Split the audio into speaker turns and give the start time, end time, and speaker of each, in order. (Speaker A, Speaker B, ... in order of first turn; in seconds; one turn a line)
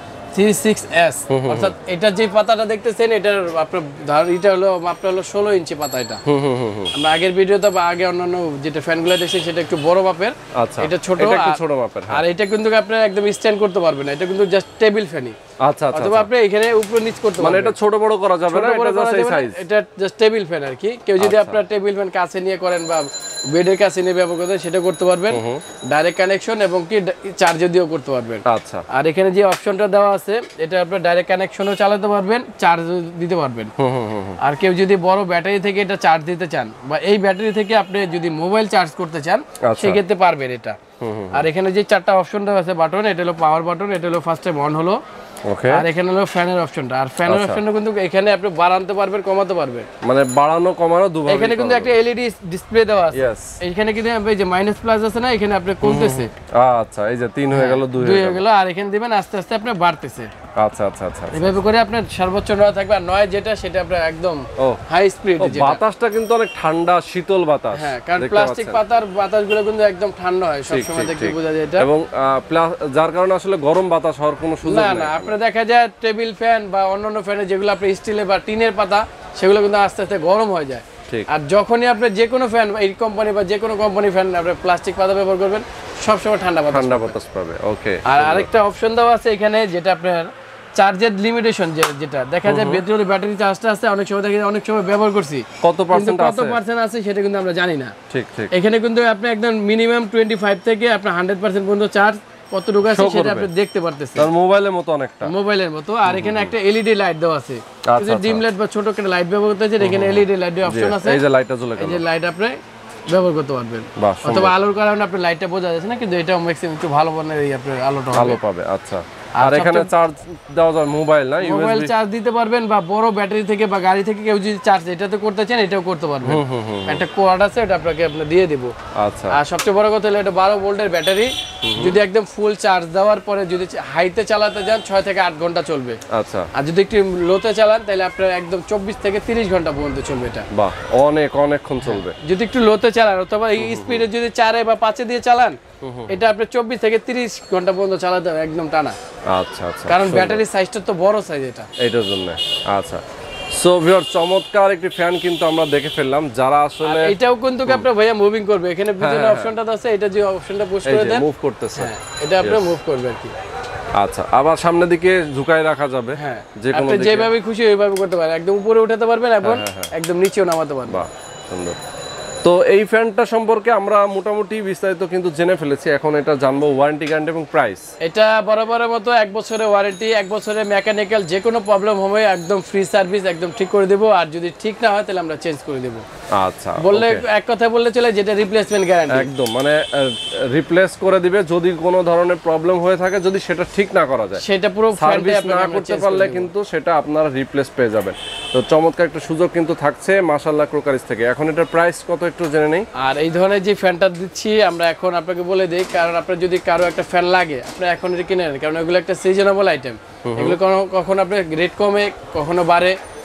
Speaker A: 0.3-6.2
Speaker B: 1.3-1.7
Speaker B: 6.3-6.9
Speaker A: 6.9-11.6
Speaker B: 10.6-12.2
Speaker A: 12.1-15.4
Speaker B: 15.6-16.3
Speaker A: 15.9-17.8
Speaker B: 17.4-19.6
Speaker A: 18.5-33.7
Speaker B: 21.2-21.6
Speaker B: 25.3-25.6
Speaker B: 28.5-28.9
Speaker B: 33.8-34.4
Speaker A: 34.4-40.8
Speaker B: 39.6-40.0
Speaker B: 41.0-41.5
Speaker A: 41.3-45.0
Speaker B: 45.5-45.9
Speaker A: 45.7-49.9
Speaker B: 47.3-47.6
Speaker B: 50.0-52.0
Speaker A: 51.3-56.3
Speaker B: 53.1-53.6
Speaker B: 55.8-58.5
Speaker A: 57.5-60.3
Speaker B: 60.6-61.6
Speaker A: 61.3-65.8
Speaker B: 65.4-68.8
Speaker A: 67.7-71.9
Speaker B: 70.7-75.4
Speaker A: 74.6-87.2
Speaker B: 86.7-88.5
Speaker A: 88.0-97.9
Speaker B: 92.5-92.8
Speaker B: 95.6-96.6
Speaker B: 98.1-98.5
Speaker A: 98.5-104.3
Speaker B: 102.8-103.5
Speaker B: 104.2-105.3
Speaker A: 105.2-111.2
Speaker B: 106.1-106.5
Speaker B: 107.9-108.4
Speaker B: 109.8-112.0
Speaker A: 111.8-118.4
Speaker B: 114.0-114.6
Speaker B: 118.1-121.9
Speaker A: 119.4-119.9
Speaker A: 121.4-128.7
Speaker B: 126.2-127.0
Speaker B: 129.0-129.4
Speaker A: 129.3-136.0
Speaker B: 131.6-132.0
Speaker B: 136.1-136.5
Speaker A: 136.6-140.5
Speaker B: 140.5-142.2
Speaker A: 141.8-145.6
Speaker B: 143.6-144.1
Speaker B: 145.8-146.2
Speaker A: 146.1-149.0
Speaker B: 149.3-150.4
Speaker A: 149.9-151.7
Speaker B: 151.8-153.0
Speaker B: 153.5-157.2
Speaker A: 156.8-161.2
Speaker B: 159.0-159.5
Speaker B: 160.8-162.8
Speaker A: 161.8-163.3
Speaker B: 164.0-167.3
Speaker A: 166.2-171.0
Speaker B: 169.4-169.9
Speaker B: 170.9-171.8
Speaker B: 172.4-177.9
Speaker A: 178.0-186.0
Speaker B: 186.4-187.2
Speaker A: 186.8-189.3
Speaker B: 189.1-194.4
Speaker A: 194.4-196.5
Speaker B: 195.0-202.9
Speaker A: 203.0-213.0
Speaker B: 210.3-210.6